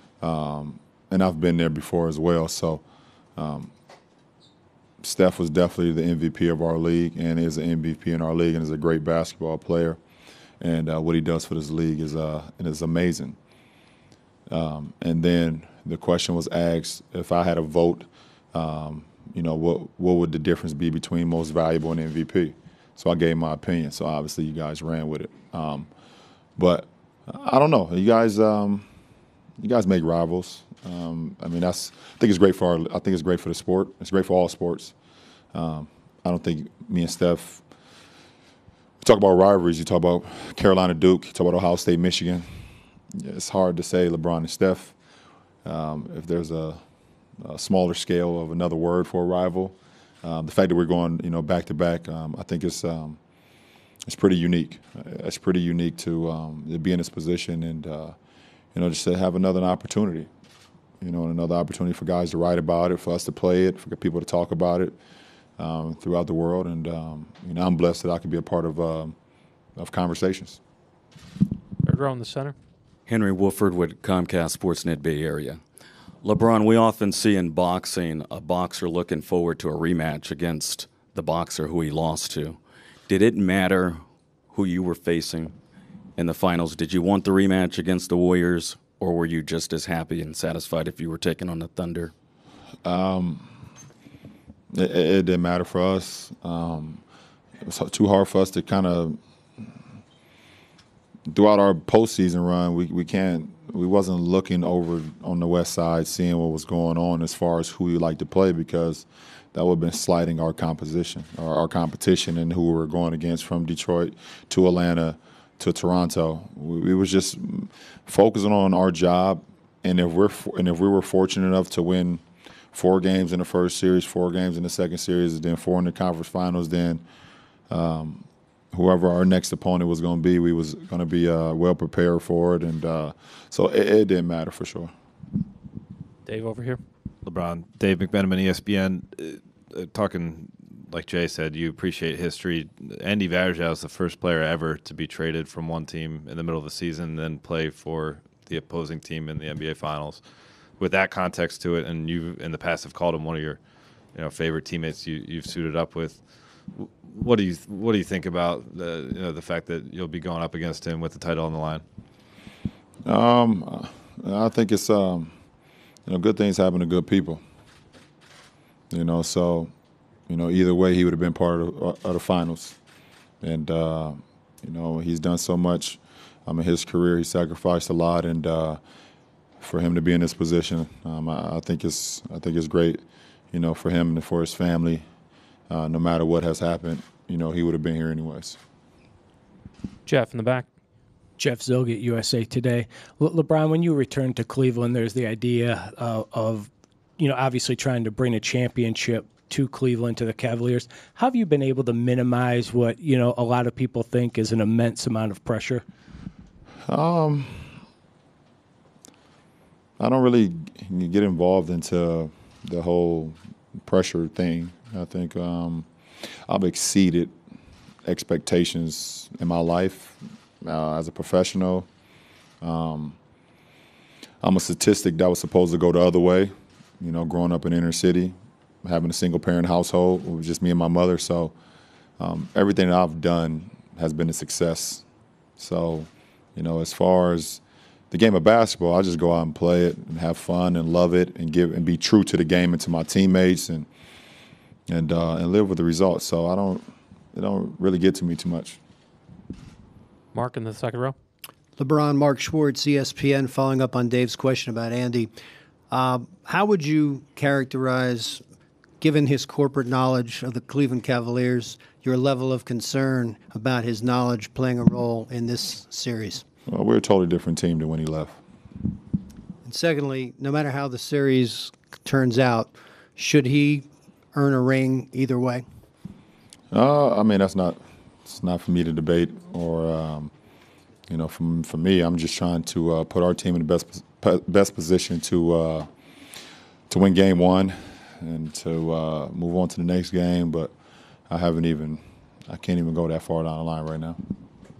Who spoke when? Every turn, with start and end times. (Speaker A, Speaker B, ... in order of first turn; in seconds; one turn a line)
Speaker A: 0.2-2.8
Speaker A: 3.4-3.7
Speaker A: 5.0-10.0
Speaker A: 10.6-13.4
Speaker A: 14.5-25.9
Speaker A: 26.6-28.9
Speaker A: 29.6-34.9
Speaker A: 35.5-37.6
Speaker A: 39.0-42.5
Speaker A: 43.1-45.0
Speaker A: 45.6-46.8
Speaker A: 47.4-53.2
Speaker A: 54.1-58.2
Speaker A: 58.7-60.3
Speaker A: 61.0-65.0
Speaker A: 65.6-69.2
Speaker A: 69.8-70.6
Speaker B: 71.8-72.5
Speaker C: 73.1-75.6
Speaker C: 76.2-85.5
Speaker C: 86.2-92.1
Speaker A: 92.8-93.5
Speaker A: 94.7-97.0
Speaker A: 97.7-99.2
Speaker A: 101.3-122.2
Speaker A: 122.7-127.0
Speaker A: 127.7-134.9
Speaker B: 136.3-136.8
Speaker D: 137.3-150.2
Speaker D: 150.8-153.6
Speaker D: 154.1-161.8
Speaker A: 163.1-165.3
Speaker A: 166.1-167.4
Speaker A: 168.9-169.7
Speaker A: 170.3-172.8
Speaker A: 173.4-178.8
Speaker A: 179.6-185.1
Speaker A: 185.7-188.6
Speaker B: 190.1-190.7
Speaker E: 191.4-205.8
Speaker A: 206.9-207.7
Speaker A: 210.0-215.9
Speaker A: 216.5-217.3
Speaker A: 218.1-221.9
Speaker A: 222.6-223.2
Speaker A: 224.4-231.6
Speaker A: 232.2-235.1
Speaker A: 235.6-243.9
Speaker A: 244.9-248.8
Speaker B: 250.3-251.2
Speaker F: 251.8-255.3
Speaker F: 255.9-258.4
Speaker F: 259.0-266.4
Speaker A: 266.7-268.4
Speaker F: 269.6-275.6
Speaker A: 276.7-280.3
Speaker A: 281.1-285.9
Speaker A: 286.9-290.7
Speaker A: 291.3-294.2